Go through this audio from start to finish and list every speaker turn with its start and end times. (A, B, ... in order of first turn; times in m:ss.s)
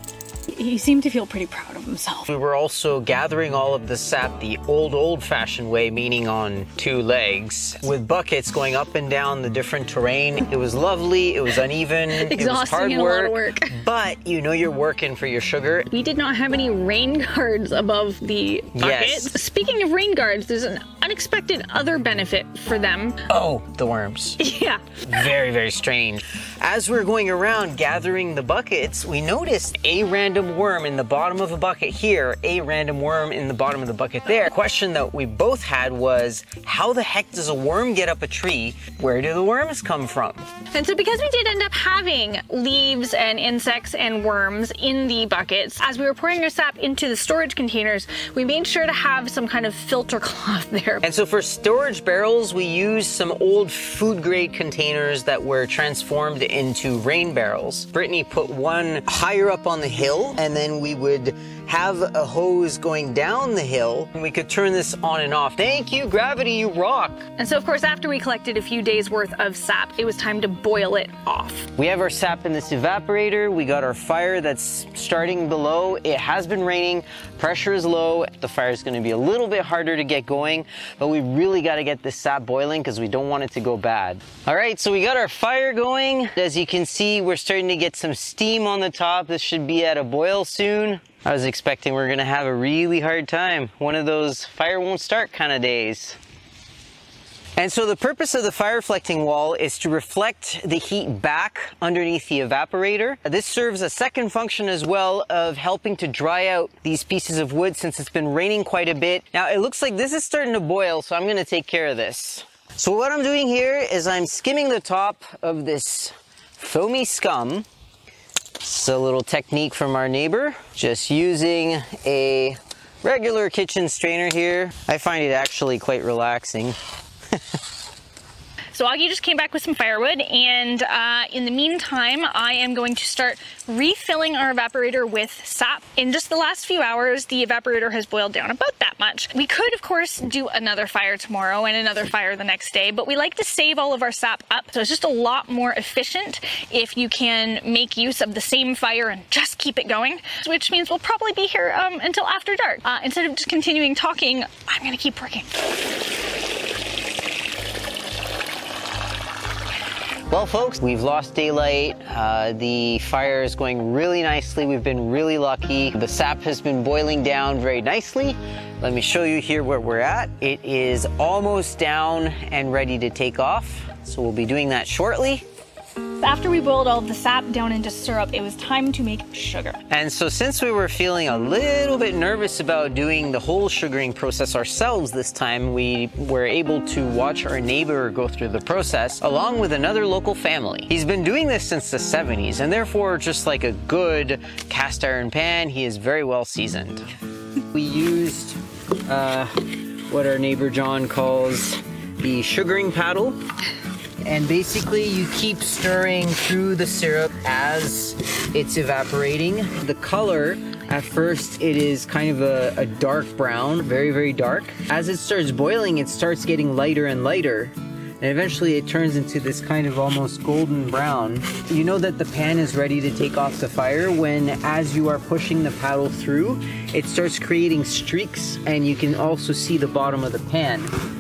0:00.5-0:02.3 A
0:02.3-0:15.9 B
0:12.1-0:13.8 A
0:15.9-0:23.2 A
0:18.7-0:19.4 B
0:23.3-0:24.4 B
0:24.4-0:25.0 A
0:25.0-0:40.4 B
0:40.7-0:51.0 A
0:51.0-1:07.3 B
1:07.4-1:11.7 A
1:11.8-1:36.2 B
1:37.6-1:57.6 B
1:58.6-2:06.8 B
2:08.7-2:35.6 A
2:40.3-2:55.4 B
2:56.2-2:59.8 A
2:59.9-3:17.1 B
3:17.7-3:19.5 B
3:20.1-3:23.4 B
3:24.2-3:50.9 B